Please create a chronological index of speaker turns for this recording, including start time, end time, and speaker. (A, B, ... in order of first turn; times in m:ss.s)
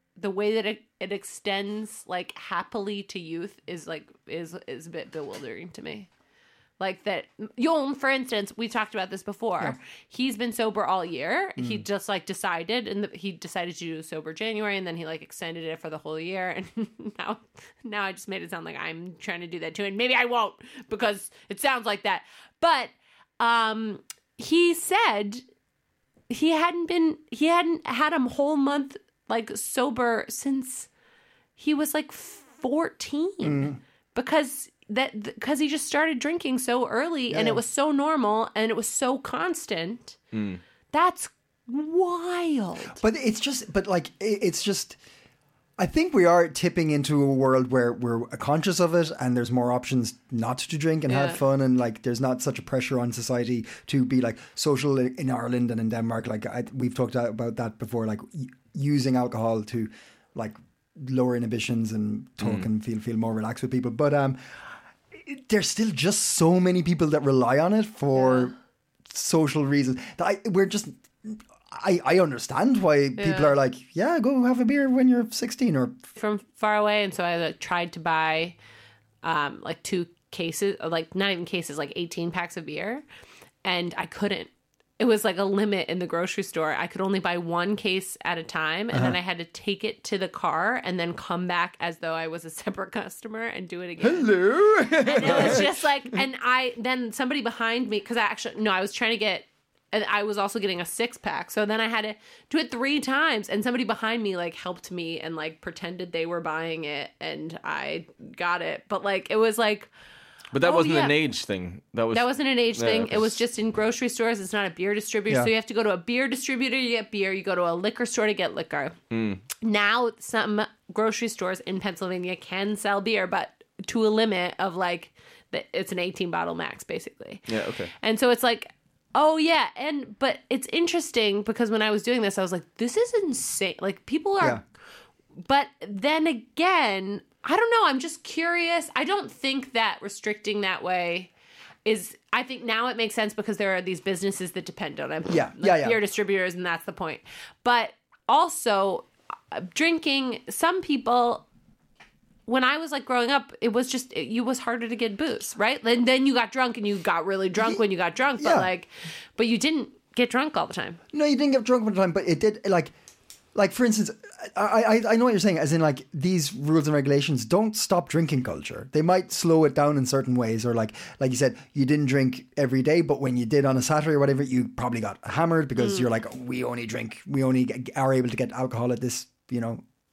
0:00.2-0:06.1 A
0:06.8-0:25.4 A
0:11.6-0:11.8 B
0:26.3-0:30.9 A
0:31.6-0:40.2 A
0:33.4-0:33.8 B
0:37.3-0:37.6 B
0:40.3-0:40.6 C
0:40.9-0:43.0 A
0:43.0-0:45.0 B
0:45.8-1:08.6 B
0:51.1-0:51.4 A
1:02.4-1:02.7 C
1:08.1-1:08.5 A
1:09.1-1:16.0 B
1:13.2-1:13.6 A
1:16.2-1:18.6 A
1:19.2-1:23.0 A
1:23.6-1:49.9 A
1:28.9-1:29.2 B
1:34.0-1:36.2 B
1:50.5-1:53.4 C
1:50.6-1:51.2 A
1:52.1-1:59.0 A
1:59.1-1:59.4 C
1:59.6-2:07.4 A
2:07.5-2:07.9 C
2:08.0-2:14.6 A
2:15.4-2:21.3 A
2:21.8-2:31.4 A
2:25.3-2:26.0 B
2:32.5-2:41.0 A
2:37.6-2:37.8 B
2:38.4-2:38.7 B
2:41.1-2:42.9 B
2:43.6-2:59.8 B
2:55.8-2:56.1 A